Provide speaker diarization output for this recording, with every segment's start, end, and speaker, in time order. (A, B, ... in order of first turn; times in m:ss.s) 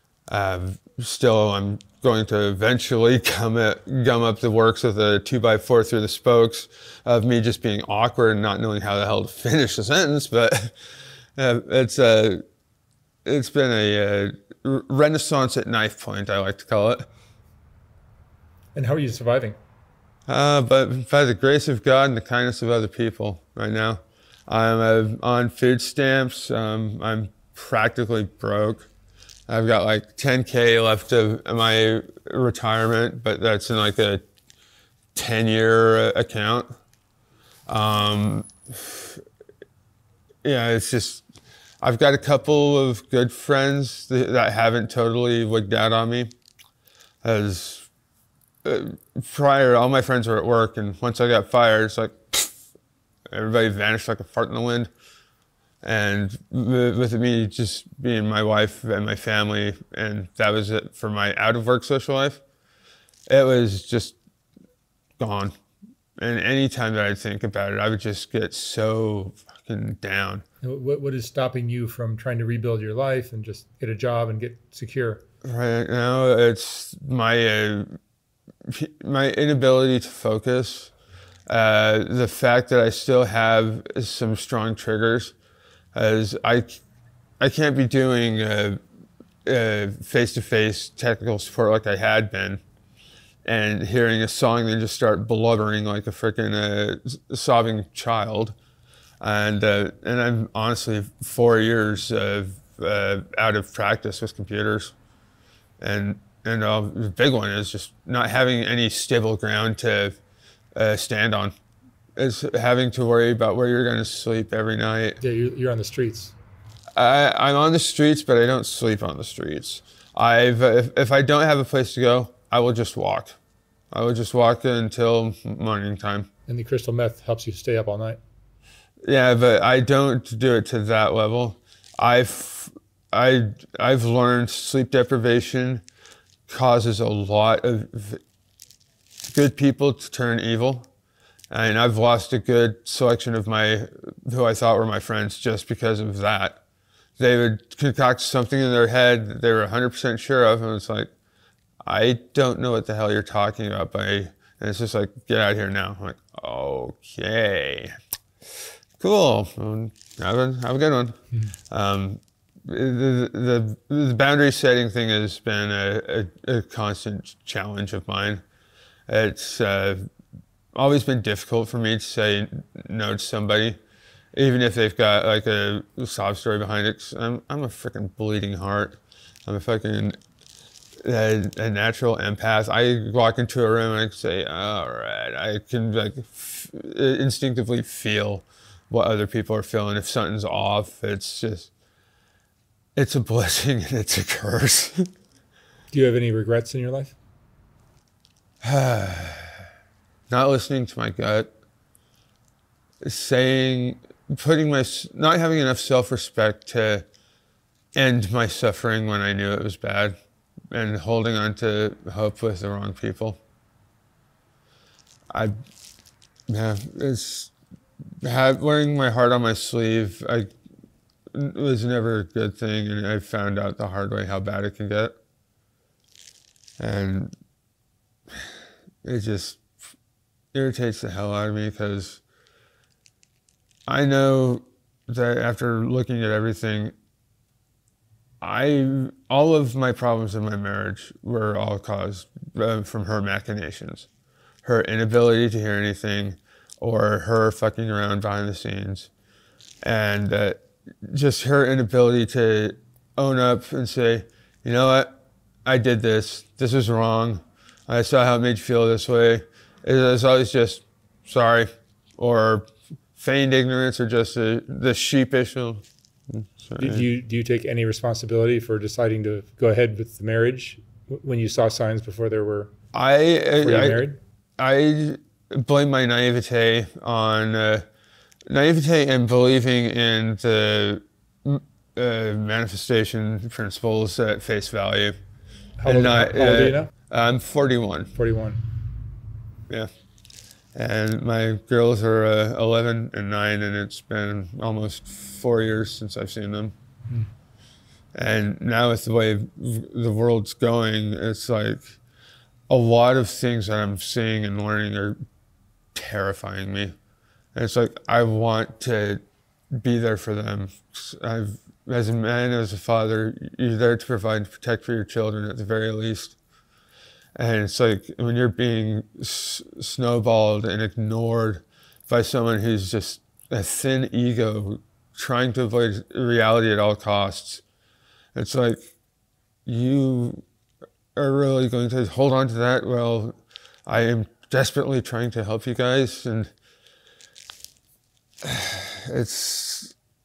0:00.3-0:10.8 A
0:11.4-0:12.4 A
0:13.2-0:17.1 A
0:18.7-0:19.6 B
0:20.3-0:28.9 A
0:29.5-0:34.2 A
0:35.1-0:36.7 A
0:37.7-0:39.2 A
0:40.4-0:41.2 A
0:41.8-0:46.3 A
0:47.2-0:47.9 A
0:48.6-0:52.5 A
0:53.3-0:54.9 A
0:55.8-1:02.4 A
1:03.3-1:04.2 A
1:05.2-1:05.5 A
1:06.2-1:10.4 A
1:10.6-1:15.2 B
1:15.4-1:17.9 A
1:18.7-1:20.9 A
1:21.5-1:25.3 A
1:25.9-1:26.8 A
1:27.4-1:28.8 A
1:29.4-1:32.6 A
1:33.4-1:38.6 A
1:39.2-1:44.9 A
1:45.8-1:50.2 A
1:50.8-1:51.5 A
1:52.2-1:55.2 A
1:55.2-1:56.3 B
1:57.0-2:03.4 A
2:03.9-2:06.3 A
2:06.5-2:08.2 B
2:09.0-2:15.8 A
2:16.5-2:18.2 A
2:19.3-2:20.9 A
2:21.5-2:26.6 A
2:27.2-2:31.1 A
2:31.8-2:38.0 A
2:39.0-2:41.2 A
2:41.7-2:48.4 A
2:49.1-2:50.1 A
2:50.7-2:53.8 A
2:54.3-3:00.2 A
3:01.0-3:11.7 A
3:13.0-3:15.1 A
3:15.9-3:17.2 B
3:18.6-3:19.5 A
3:20.3-3:21.5 A
3:23.0-3:27.0 A
3:28.0-3:30.2 A
3:30.7-3:33.4 A
3:36.5-3:37.5 A
3:38.2-3:40.5 A
3:41.3-3:45.1 A
3:46.8-3:47.3 A
3:49.0-3:49.6 A
3:50.5-3:52.2 A
3:53.9-3:56.9 A
3:58.4-4:04.1 A
4:04.6-4:09.1 A
4:09.8-4:15.1 A
4:15.6-4:27.1 A
4:26.8-4:32.7 B
4:32.9-4:34.0 A
4:33.6-4:34.2 B
4:34.6-4:37.8 A
4:38.5-4:45.2 A
4:45.8-4:46.9 B
4:45.8-4:48.1 A
4:48.1-4:48.6 B
4:50.7-4:56.7 A
4:58.1-5:02.0 A
5:02.7-5:05.2 A
5:05.9-5:06.9 A
5:07.5-5:09.2 A
5:09.7-5:16.4 A
5:17.4-5:27.6 A
5:28.3-5:28.9 A
5:29.6-5:30.4 A
5:31.2-5:36.5 A
5:38.4-5:39.9 A